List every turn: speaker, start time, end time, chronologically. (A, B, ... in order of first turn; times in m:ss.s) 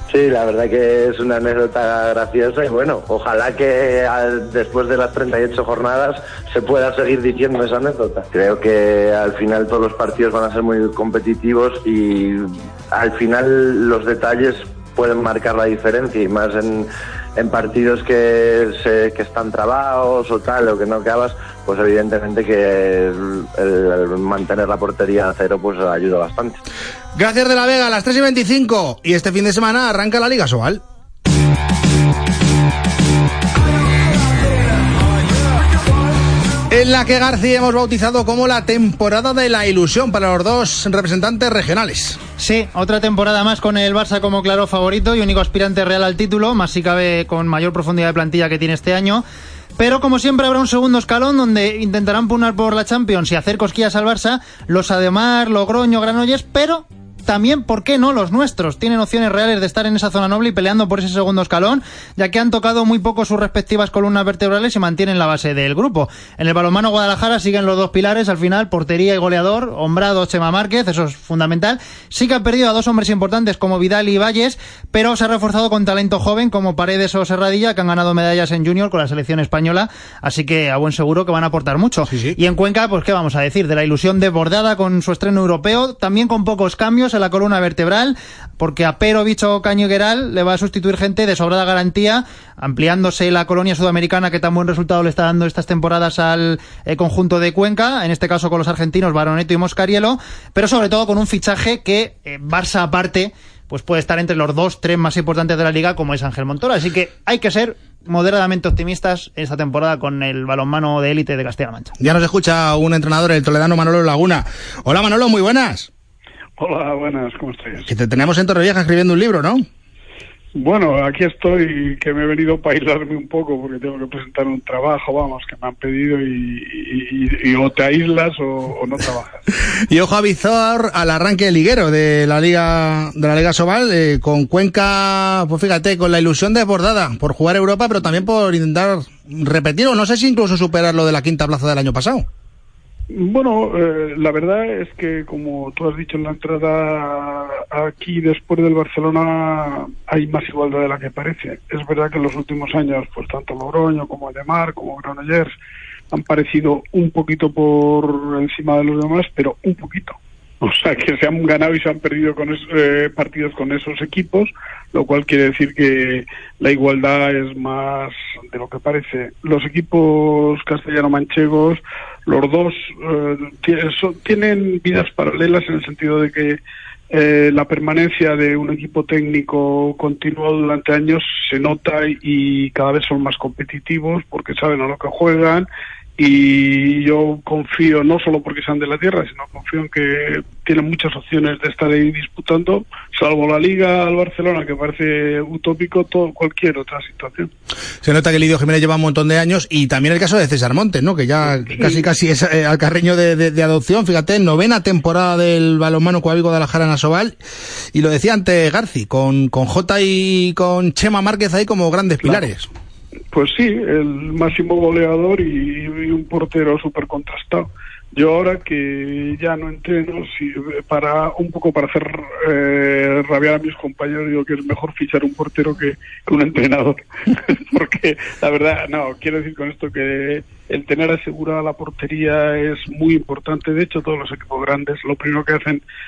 0:00.1-0:26.6 A
0:27.1-0:30.8 B
0:36.7-0:42.2 B
0:42.4-0:49.2 C
0:49.8-1:51.9 C
1:22.1-1:22.4 B
1:52.0-1:55.9 B
1:56.6-1:57.9 D
1:57.8-1:59.6 B
2:00.6-2:09.4 D
2:09.9-2:22.2 B
2:23.1-2:35.5 D
2:36.1-2:56.6 D
2:57.1-3:05.7 D
3:06.2-3:17.5 D
3:18.0-3:27.4 B
3:21.7-3:22.0 D
3:27.9-3:32.7 B
3:33.3-3:47.0 D
3:47.7-3:55.8 D